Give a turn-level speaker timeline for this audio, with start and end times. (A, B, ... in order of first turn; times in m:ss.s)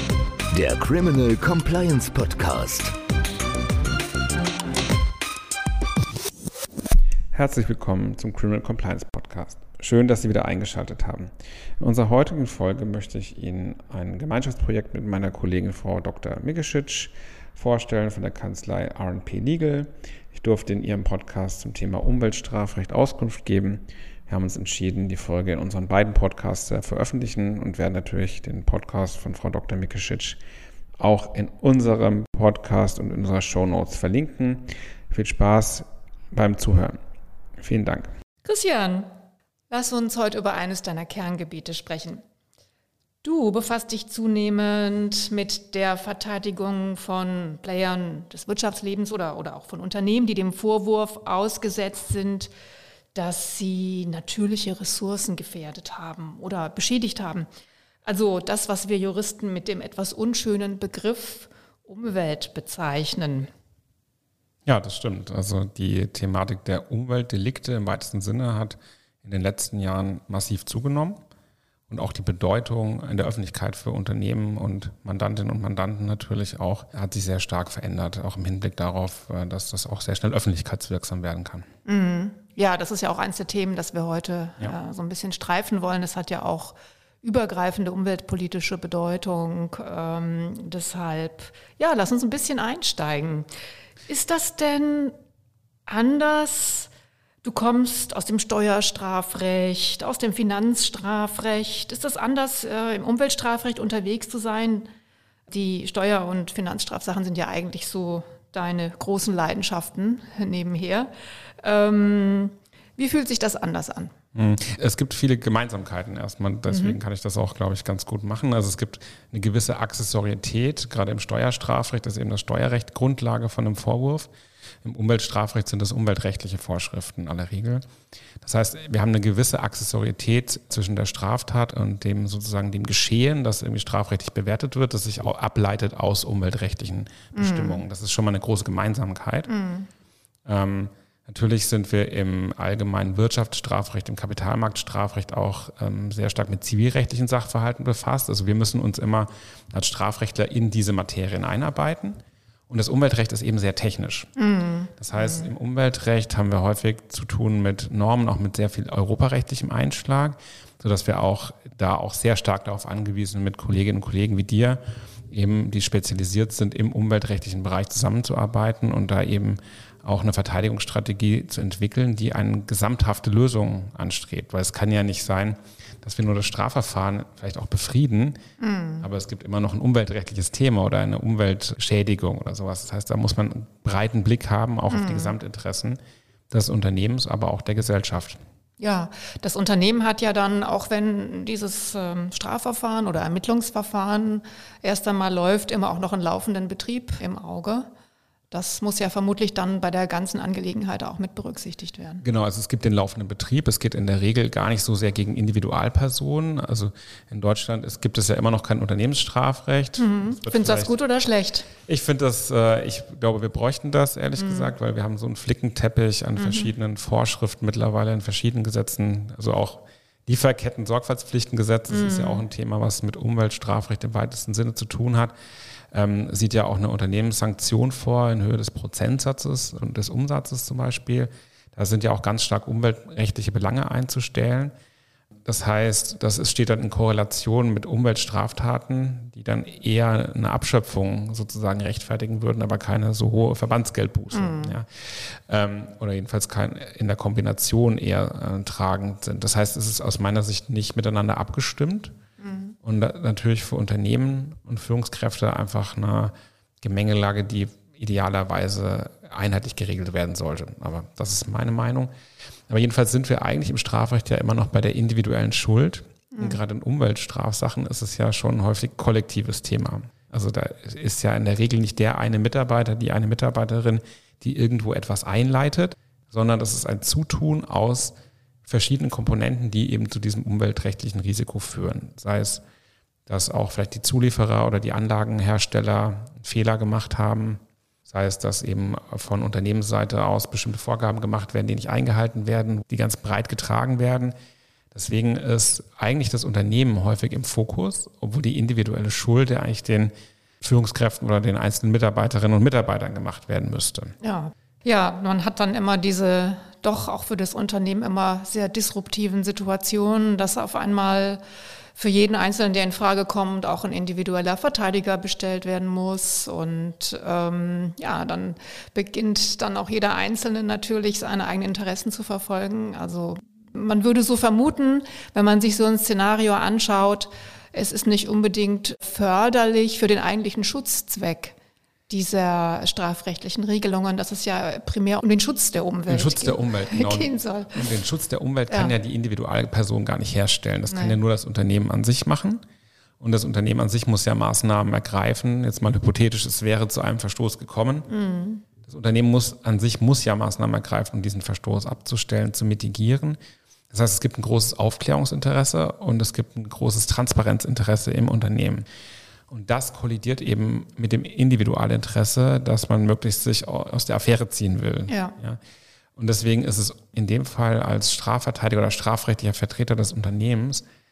0:00.5-0:02.9 A
0:07.3-0:30.4 B
0:31.0-0:37.0 B
0:37.6-0:38.1 B
0:38.4-0:39.1 C
0:39.7-0:42.2 C
0:43.2-0:52.5 C
0:53.1-0:57.5 C
0:58.0-1:03.5 C
1:04.6-1:11.2 B
1:11.9-1:21.6 B
1:21.8-1:33.5 C
1:34.1-1:35.1 C
1:35.8-1:36.9 C
1:37.4-1:44.9 C
1:45.5-1:51.1 C
1:51.6-1:54.1 C
1:54.3-2:04.3 B
1:56.7-1:57.0 C
2:04.8-2:07.8 B
2:08.4-2:19.5 B
2:17.3-2:17.8 C
2:19.5-2:19.9 C
2:20.4-2:32.2 B
2:32.7-2:34.3 B
2:34.4-2:35.5 C
2:35.0-2:58.4 B
2:58.6-2:59.1 C
2:59.0-3:06.0 B
3:04.9-3:05.4 C
3:06.5-3:08.4 B
3:08.8-3:17.9 C
3:18.5-3:22.2 C
3:22.2-3:30.9 B
3:30.0-3:31.7 C
3:31.9-3:45.3 B
3:34.4-3:34.7 C
3:36.4-3:36.7 C
3:41.9-3:42.4 C
3:45.9-3:54.7 B
3:55.4-4:12.1 B
4:04.3-4:04.8 C
4:12.4-4:12.7 C
4:12.8-4:22.1 B
4:22.7-4:38.1 B
4:26.3-4:26.6 C
4:38.6-4:42.6 B
4:43.3-4:54.3 B
4:54.9-5:04.1 B
5:04.2-5:11.4 C
5:11.9-5:31.6 C
5:32.1-5:37.8 C
5:36.1-5:42.6 B
5:38.7-5:38.9 C
5:40.9-5:41.2 C
5:43.2-5:48.1 B
5:48.1-5:48.6 C
5:48.8-5:53.4 B
5:53.9-5:58.8 B
5:59.5-6:05.6 B
6:05.1-6:05.3 C
6:06.2-6:10.8 B